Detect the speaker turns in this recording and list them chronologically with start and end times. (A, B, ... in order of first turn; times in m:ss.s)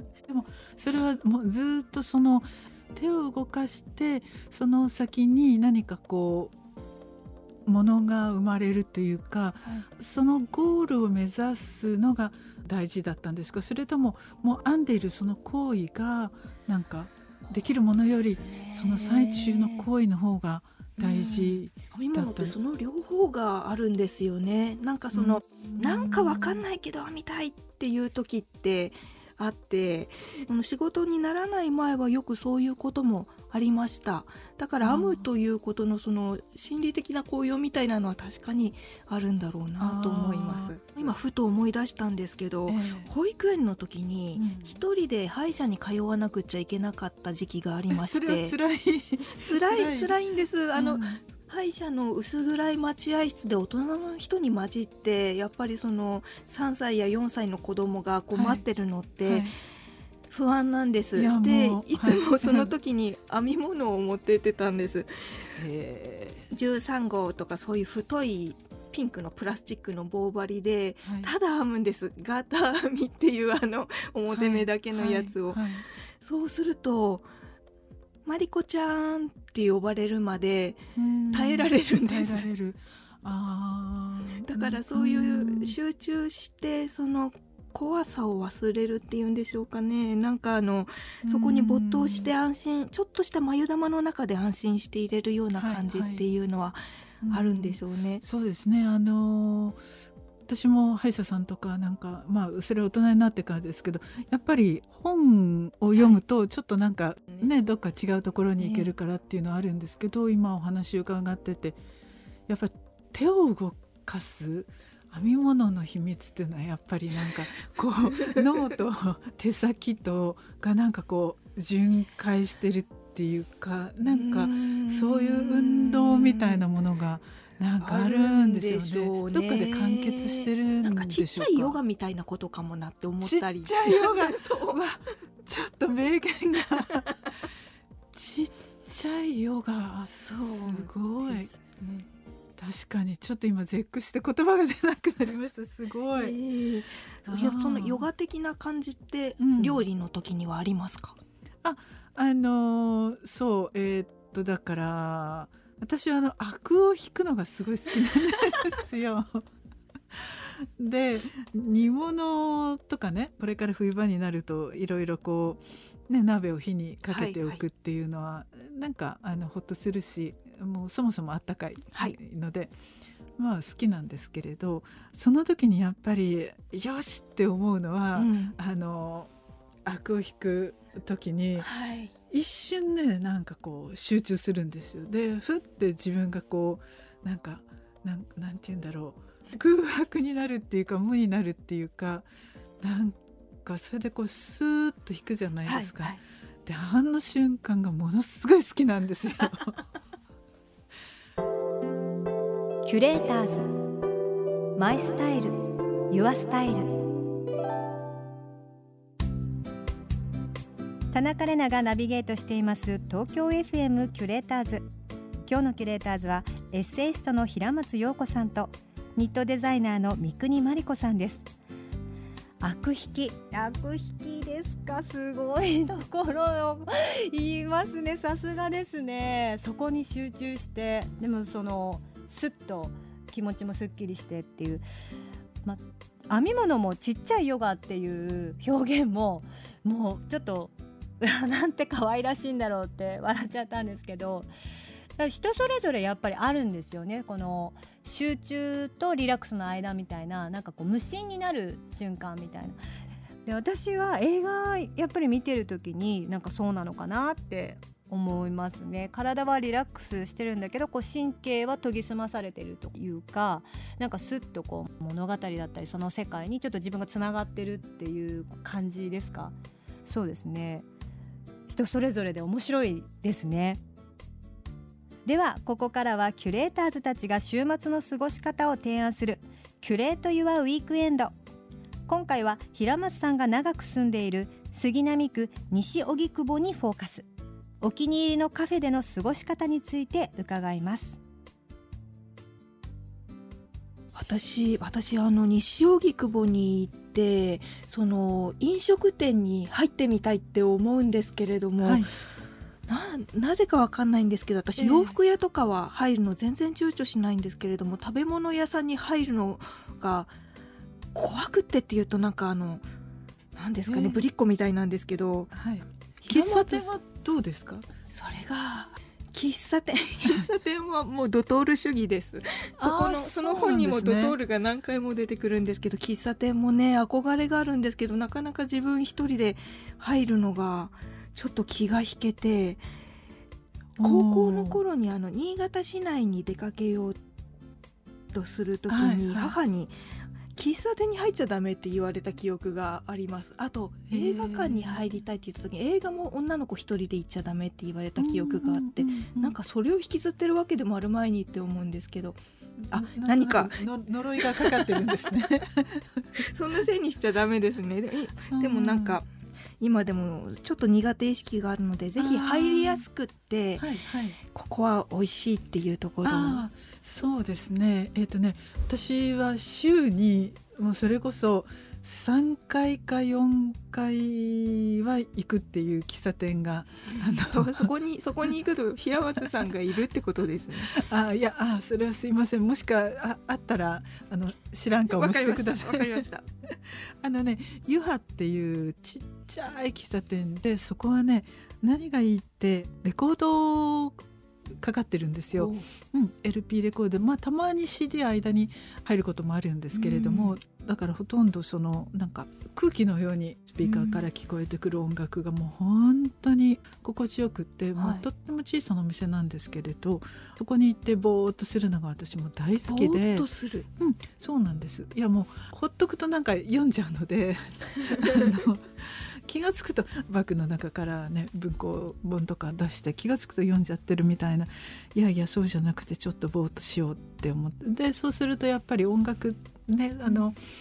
0:00.2-0:06.5 A
0:07.6-0:22.5 A
0:18.4-0:19.9 B
0:21.0-0:48.6 B
0:25.1-0:26.6 A
0:34.8-0:35.2 A
0:39.8-0:40.8 A
0:42.7-0:43.1 A
0:44.3-0:44.8 A
0:47.9-0:50.2 A
0:49.4-0:59.5 B
0:50.7-0:51.2 A
0:58.3-0:58.6 A
0:59.2-0:59.5 A
1:00.3-1:05.6 B
1:01.2-1:02.7 A
1:05.6-1:06.5 A
1:06.5-1:17.3 B
1:11.0-1:11.3 A
1:14.3-1:15.8 A
1:18.2-1:20.8 B
1:20.9-1:25.8 A
1:21.3-1:22.5 B
1:24.4-1:38.2 B
1:31.2-1:32.3 A
1:35.6-1:36.3 A
1:37.2-1:39.8 A
1:40.5-1:51.8 A
1:45.9-1:46.2 B
1:48.6-1:48.9 B
1:52.5-2:11.8 A
2:04.1-2:06.6 B
2:07.8-2:14.8 B
2:13.2-2:17.2 A
2:18.1-2:21.5 A
2:20.1-2:22.0 B
2:22.6-2:26.3 A
2:26.1-2:31.2 B
2:27.3-2:28.1 A
2:29.4-2:29.8 A
2:31.6-2:39.4 A
2:40.1-2:52.7 A
2:47.1-2:47.6 B
2:53.4-2:59.3 A
2:58.1-2:58.5 B
2:59.8-3:01.7 A
3:01.6-3:02.1 B
3:02.3-3:19.8 A
3:15.6-3:16.2 B
3:22.8-3:23.7 C
3:24.8-3:27.0 C
3:31.1-3:34.8 C
3:35.4-3:41.4 C
3:42.6-3:54.8 C
3:55.6-4:04.5 C
4:05.2-4:12.8 C
4:13.4-4:30.8 C
4:31.7-4:33.8 C
4:35.2-4:41.3 C
4:42.1-4:47.3 C
4:47.8-4:51.2 C
4:54.1-5:02.0 B
5:01.8-5:02.1 A
5:02.9-5:10.3 B
5:04.8-5:05.2 A
5:11.1-5:12.8 B
5:13.6-5:15.5 B
5:13.9-5:14.2 A
5:15.5-5:17.9 A
5:16.2-5:16.9 B
5:18.1-5:32.8 B
5:22.8-5:24.3 A
5:34.0-5:34.8 A
5:34.0-5:37.2 B
5:38.3-5:39.9 B
5:38.9-5:39.5 A
5:40.6-5:52.4 B
5:44.1-5:45.0 A
5:48.2-5:49.5 A
5:52.8-5:56.4 A
5:52.9-5:53.8 B
5:54.4-5:55.1 B
5:56.4-5:59.3 B
5:58.5-5:59.2 A
5:59.8-6:06.6 B
6:02.2-6:03.0 A
6:03.8-6:04.4 A
6:06.2-6:17.9 A
6:17.4-6:21.0 B
6:20.8-6:34.2 A
6:25.1-6:26.4 B
6:34.8-6:53.5 A
6:35.5-6:35.8 B
6:39.9-6:40.6 B
6:43.8-6:44.2 B
6:48.0-6:48.2 B
6:52.9-6:53.9 B
6:54.0-7:10.6 A